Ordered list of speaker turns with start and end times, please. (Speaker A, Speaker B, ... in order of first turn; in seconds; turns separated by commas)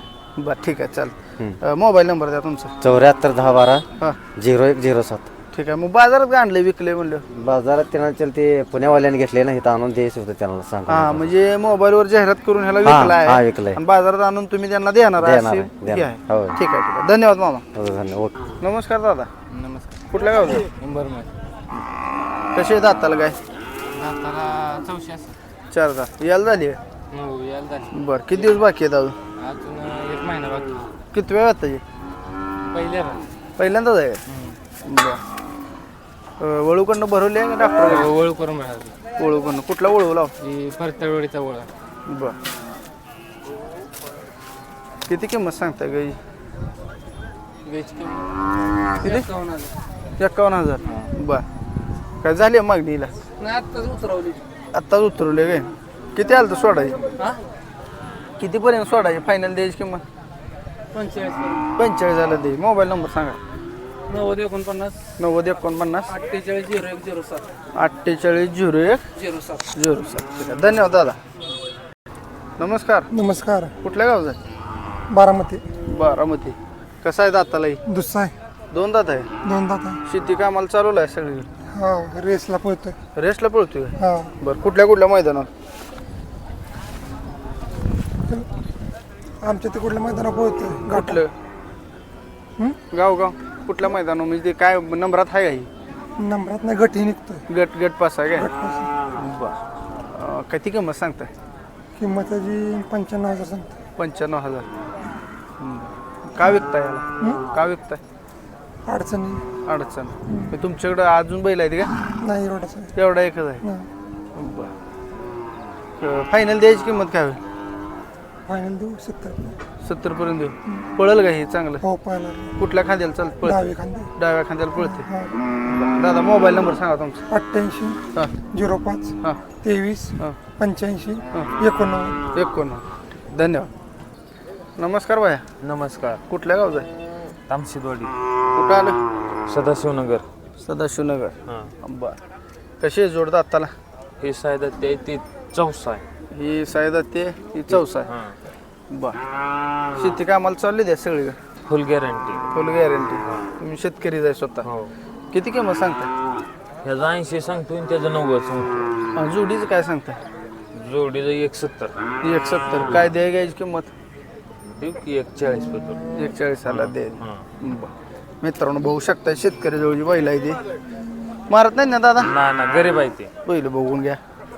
Speaker A: 0.4-2.7, Speaker B: 2.8-5.3, Speaker A: 5.5-7.2, Speaker B: 7.3-11.3, Speaker A: 10.9-17.6, Speaker B: 12.8-13.8, Speaker B: 15.2-16.6, Speaker B: 17.7-18.4, Speaker A: 18.6-19.3, Speaker C: 19.5-19.9, Speaker A: 20.1-20.7, Speaker C: 20.6-21.3, Speaker A: 22.5-23.4, Speaker C: 23.9-25.3, Speaker A: 25.7-26.8, Speaker C: 27.1-27.9, Speaker A: 27.9-29.2, Speaker C: 29.4-30.8, Speaker A: 31.1-31.8, Speaker C: 32.6-33.2, Speaker A: 33.6-34.2, Speaker C: 34.3-34.6, Speaker A: 34.9-35.2, Speaker A: 36.4-38.1, Speaker C: 37.9-39.0, Speaker A: 39.2-40.3, Speaker C: 40.4-41.7, Speaker A: 42.1-42.4, Speaker A: 45.1-46.2, Speaker C: 47.7-48.3, Speaker A: 49.0-49.3, Speaker C: 49.0-49.7, Speaker A: 50.2-51.5, Speaker A: 52.2-53.1, Speaker C: 53.4-54.5, Speaker A: 54.7-57.0, Speaker A: 58.4-60.0, Speaker C: 60.9-61.7, Speaker A: 61.8-63.4, Speaker C: 64.1-65.0, Speaker A: 65.2-66.2, Speaker C: 66.1-67.5, Speaker A: 67.8-69.0, Speaker C: 69.2-69.6, Speaker A: 69.7-71.2, Speaker A: 72.6-73.1, Speaker D: 73.1-73.7, Speaker A: 73.8-74.4, Speaker D: 75.1-75.6, Speaker A: 75.9-77.8, Speaker D: 77.9-78.3, Speaker A: 78.7-79.3, Speaker D: 79.4-80.0, Speaker A: 80.1-81.5, Speaker D: 81.7-83.0, Speaker A: 83.2-85.5, Speaker D: 84.0-84.3, Speaker D: 89.4-91.2, Speaker A: 90.8-91.3, Speaker A: 92.9-95.7, Speaker D: 96.2-97.4, Speaker A: 97.5-98.5, Speaker D: 98.4-98.9, Speaker A: 99.2-99.6, Speaker A: 100.1-101.3, Speaker D: 102.0-103.7, Speaker A: 104.0-104.7, Speaker A: 105.6-108.0, Speaker D: 108.9-109.4, Speaker A: 109.7-111.9, Speaker D: 110.3-110.5, Speaker D: 112.2-112.9, Speaker A: 113.0-113.6, Speaker D: 113.6-113.9, Speaker A: 114.4-114.7, Speaker A: 116.0-117.4, Speaker D: 118.5-119.5, Speaker A: 119.8-121.8, Speaker D: 121.8-122.5, Speaker A: 122.6-125.1, Speaker D: 123.4-124.1, Speaker D: 124.9-125.3, Speaker A: 125.7-127.2, Speaker D: 127.3-128.0, Speaker D: 128.5-132.2, Speaker A: 132.3-133.7, Speaker A: 134.8-135.4, Speaker E: 135.6-136.2, Speaker A: 136.3-136.9, Speaker E: 137.5-138.1, Speaker A: 138.5-139.0, Speaker E: 139.5-140.2, Speaker A: 140.6-142.2, Speaker E: 141.5-141.7, Speaker A: 142.8-143.7, Speaker E: 144.2-146.0, Speaker A: 146.3-148.1, Speaker E: 147.7-148.4, Speaker A: 148.9-149.2, Speaker A: 150.0-151.4, Speaker E: 151.7-152.5, Speaker A: 152.5-154.7, Speaker E: 154.6-154.9, Speaker A: 155.3-156.1, Speaker E: 156.8-158.9, Speaker A: 159.2-160.2, Speaker E: 160.8-161.9, Speaker A: 162.2-163.9, Speaker E: 164.8-166.0, Speaker A: 166.2-167.9, Speaker E: 166.7-167.5, Speaker A: 168.4-170.6, Speaker A: 171.5-172.3, Speaker E: 172.2-173.3, Speaker A: 173.4-174.2